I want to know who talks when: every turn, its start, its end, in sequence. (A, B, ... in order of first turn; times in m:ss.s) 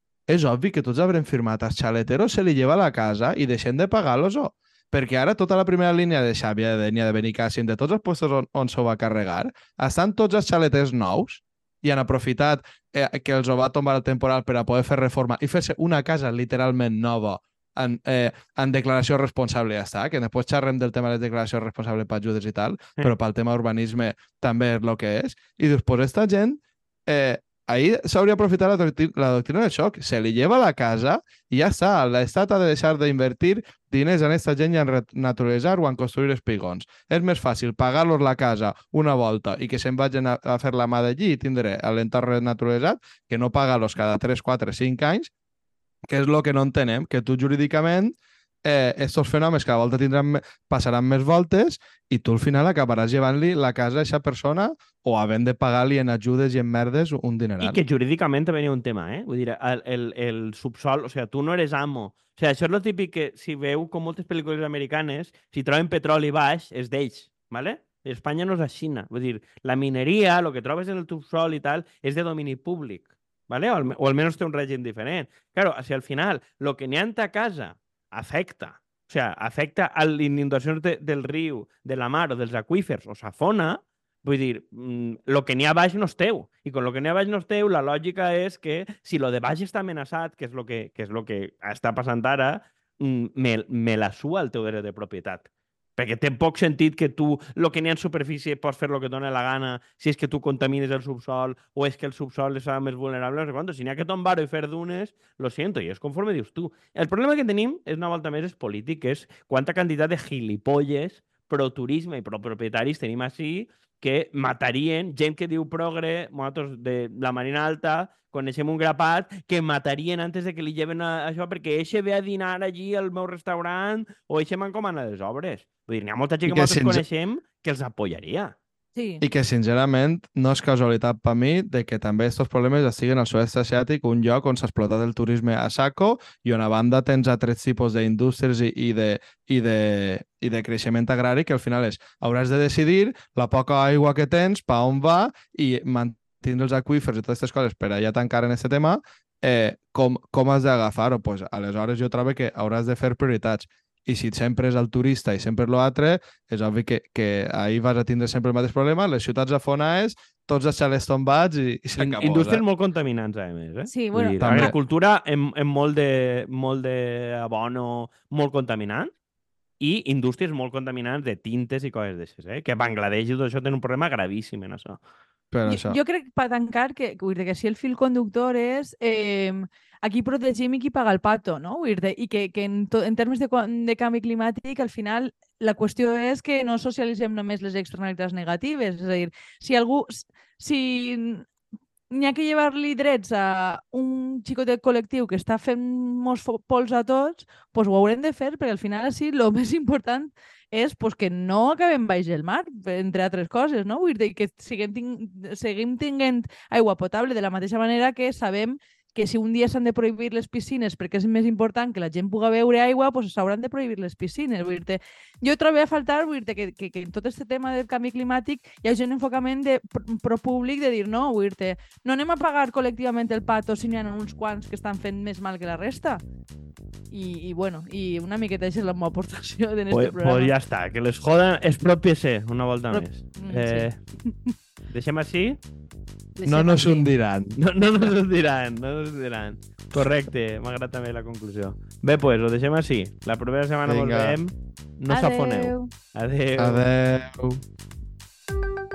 0:00.3-0:45.3 A
0:46.1-0:57.8 A
0:57.6-1:35.4 B
1:36.0-2:08.6 B
2:06.5-2:07.0 A
2:09.0-2:09.2 C
2:09.2-2:42.6 A
2:42.0-2:49.1 B
2:43.9-2:44.7 C
2:44.4-2:44.7 A
2:49.8-2:55.0 B
2:55.5-2:56.0 A
2:55.6-3:11.5 C
3:12.1-3:46.2 C
3:47.1-3:50.5 C
3:49.9-3:54.0 B
3:52.9-3:54.5 C
3:54.9-3:55.6 B
3:56.4-3:57.1 C
3:56.4-3:57.6 A
3:57.6-4:06.8 B
4:03.8-4:04.4 A
4:05.1-4:05.9 C
4:06.6-4:07.6 A